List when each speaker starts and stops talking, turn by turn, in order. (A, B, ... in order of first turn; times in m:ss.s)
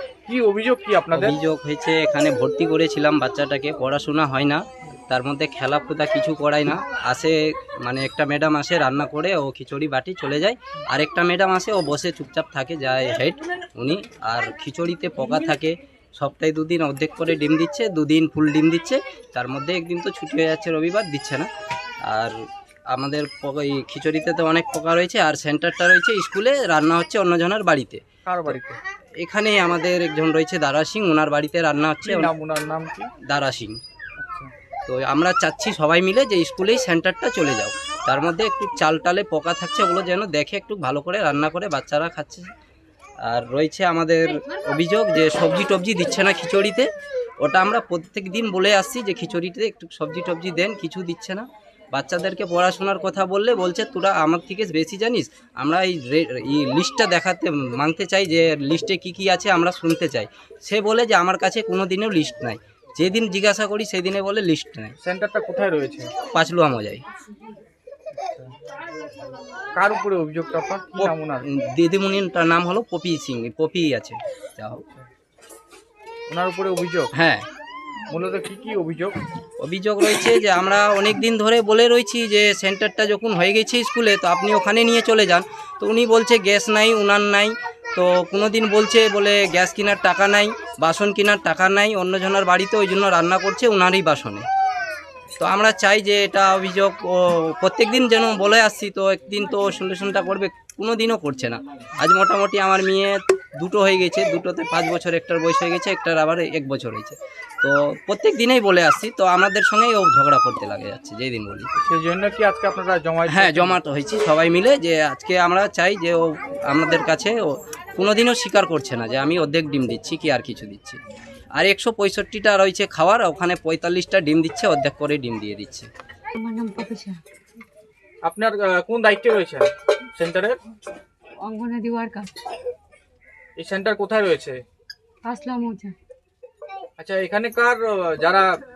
0:00.3-0:01.3 A
0:01.1-0:21.5 B
0:22.1-0:22.4 B
0:22.9-0:28.6 B
0:28.2-0:28.8 A
0:29.2-0:32.3 B
0:32.0-0:33.1 A
0:33.2-0:33.8 B
0:34.2-0:34.5 A
0:34.8-0:42.5 B
0:43.2-0:46.9 B
0:47.4-1:04.9 B
1:05.0-1:06.1 A
1:06.3-1:07.0 B
1:08.2-1:08.5 A
1:09.7-1:11.4 A
1:11.0-1:14.8 B
1:16.3-1:17.1 A
1:17.1-1:17.4 B
1:18.1-1:19.2 A
1:19.6-1:34.4 B
1:35.4-1:51.7 B
1:51.8-1:53.7 A
1:53.2-2:01.0 B
2:01.6-2:05.9 B
2:06.4-2:07.2 C
2:08.2-2:10.6 A
2:11.4-2:12.3 C
2:13.6-2:14.6 A
2:15.2-2:15.9 C
2:17.0-2:18.6 A